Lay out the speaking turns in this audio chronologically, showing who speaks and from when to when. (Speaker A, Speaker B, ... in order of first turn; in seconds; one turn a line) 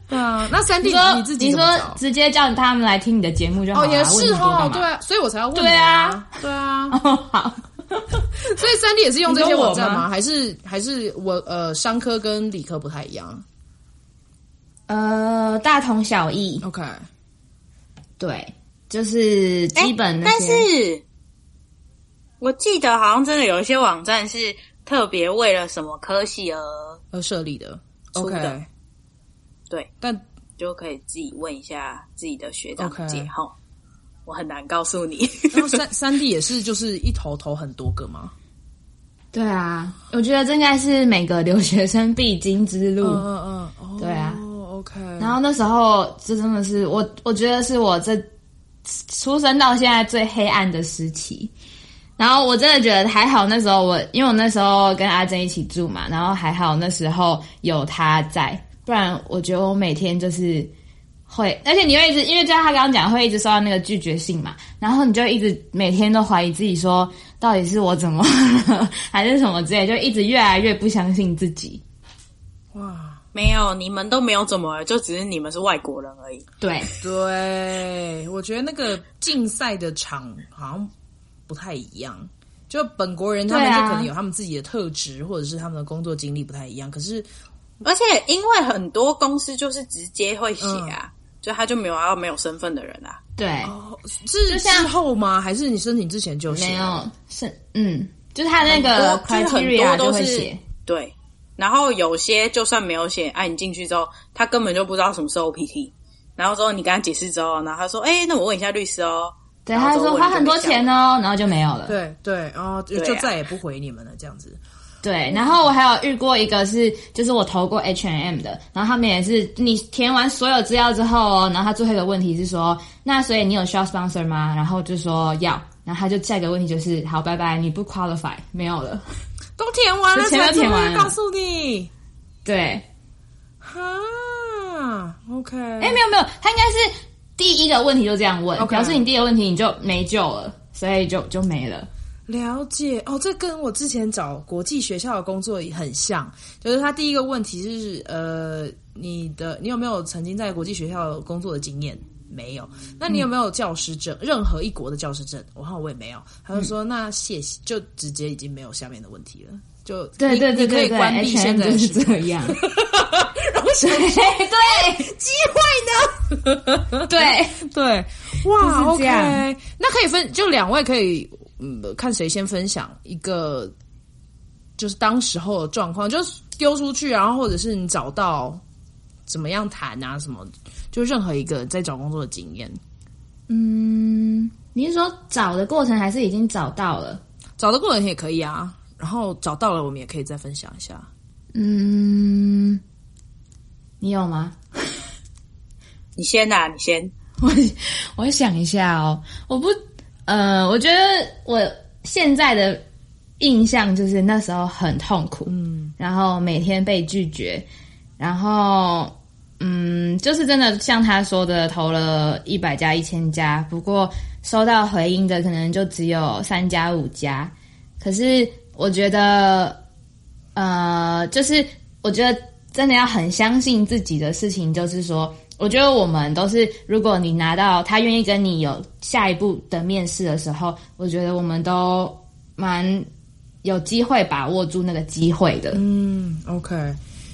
Speaker A: 0.1-2.0
Speaker B: 0.8-4.9
Speaker A: 3.7-7.0
Speaker B: 5.5-6.3
Speaker B: 6.9-8.2
Speaker A: 8.4-13.4
Speaker B: 9.3-10.1
Speaker B: 14.9-16.6
Speaker A: 16.6-17.1
Speaker B: 18.2-20.7
Speaker C: 19.8-21.0
Speaker C: 22.4-27.0
Speaker A: 27.1-28.7
Speaker C: 28.2-28.6
Speaker C: 30.6-33.5
Speaker A: 32.8-33.3
Speaker C: 34.3-35.8
Speaker A: 35.5-38.3
Speaker B: 39.3-43.2
Speaker A: 43.0-45.4
Speaker B: 44.0-44.4
Speaker B: 45.2-48.3
Speaker B: 48.9-51.5
Speaker B: 52.2-60.7
Speaker B: 61.3-71.8
Speaker A: 72.7-73.2
Speaker C: 73.3-76.5
Speaker B: 76.6-76.9
Speaker A: 77.0-80.9
Speaker A: 81.5-87.3
Speaker B: 83.5-84.1
Speaker C: 87.8-93.2
Speaker A: 90.6-91.0
Speaker B: 93.4-93.7
Speaker A: 93.6-97.0
Speaker B: 94.5-94.9
Speaker B: 96.5-100.6
Speaker C: 98.7-110.9
Speaker B: 109.7-112.0
Speaker A: 111.9-114.6
Speaker C: 112.9-113.3
Speaker B: 115.0-129.1
Speaker A: 129.6-131.9
Speaker B: 130.1-131.2
Speaker B: 132.4-132.8
Speaker A: 133.6-136.0
Speaker B: 135.8-141.9
Speaker A: 138.6-139.0
Speaker A: 142.3-173.7
Speaker B: 160.2-162.6
Speaker B: 163.8-165.1
Speaker B: 167.1-167.6
Speaker B: 168.6-169.4
Speaker A: 174.8-178.6
Speaker A: 179.3-182.8
Speaker B: 183.5-187.2
Speaker A: 187.6-191.1
Speaker B: 191.5-192.8
Speaker B: 194.0-194.6
Speaker C: 196.2-197.1
Speaker B: 197.4-202.8
Speaker B: 203.4-207.7
Speaker A: 205.5-205.9
Speaker B: 208.2-219.8
Speaker B: 220.6-233.1
Speaker B: 233.6-235.8
Speaker A: 235.7-237.0